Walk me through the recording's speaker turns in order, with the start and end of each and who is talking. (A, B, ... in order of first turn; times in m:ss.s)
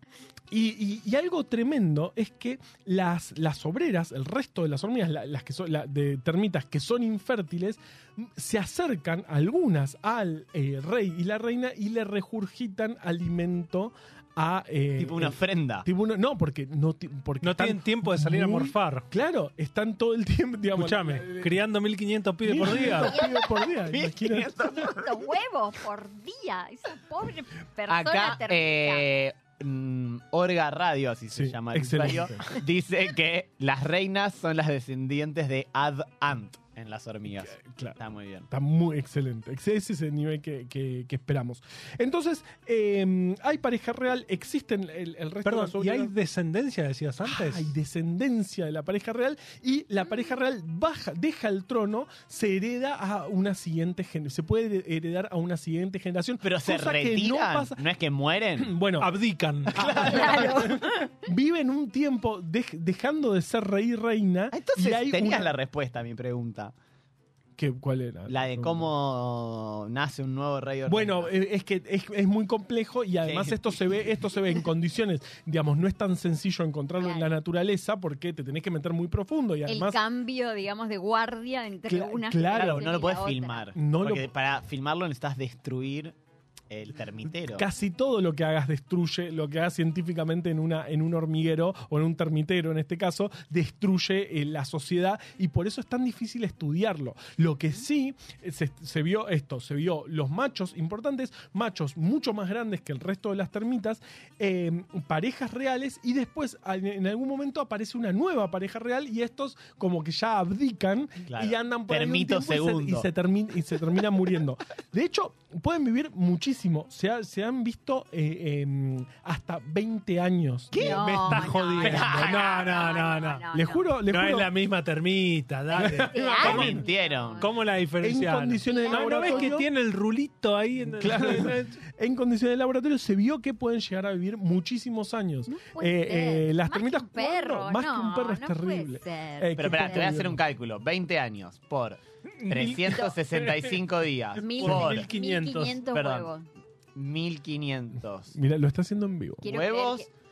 0:00.5-0:21.6 A
0:15.0-0:15.9 B
0:17.4-0:19.0 C
0:20.7-0:23.1 C
0:22.4-0:24.5 A
0:22.9-0:23.5 D
0:23.9-0:25.3 B
0:24.6-0:29.1 D
0:27.9-0:38.5 B
0:31.3-0:32.5 A
0:37.5-0:38.0 A
0:38.5-0:46.1 A
0:45.4-0:47.7 C
0:47.2-0:57.8 A
0:56.4-0:58.8 B
0:58.6-0:59.1 A
0:59.0-1:00.3 C
0:59.7-1:00.6 B
0:59.7-1:05.6 A
1:00.0-1:00.8 D
1:04.5-1:06.7 B
1:07.6-1:08.9 A
1:08.3-1:11.3 B
1:10.9-1:20.0 A
1:13.2-1:13.8 B
1:17.0-1:17.3 D
1:19.7-1:23.7 D
1:21.9-1:22.9 A
1:22.5-1:26.2 B
1:23.8-1:24.3 A
1:26.7-1:27.7 B
1:27.5-2:01.5 A
1:51.3-1:53.1 B
2:00.7-2:01.0 B
2:00.8-2:04.0 D
2:00.8-2:03.4 C
2:01.8-2:02.4 B
2:03.5-2:04.5 A
2:04.1-2:11.7 C
2:05.7-2:06.8 A
2:05.9-2:07.6 D
2:06.2-2:07.4 B
2:08.0-2:09.7 A
2:08.6-2:09.6 D
2:11.0-2:20.4 A
2:15.5-2:20.2 D
2:19.6-2:25.1 B
2:22.4-2:23.6 C
2:24.4-2:26.5 D
2:24.6-2:25.8 C
2:25.9-2:26.3 B
2:27.0-2:28.4 B
2:28.3-2:29.5 A
2:29.4-2:30.1 D
2:29.5-2:30.1 B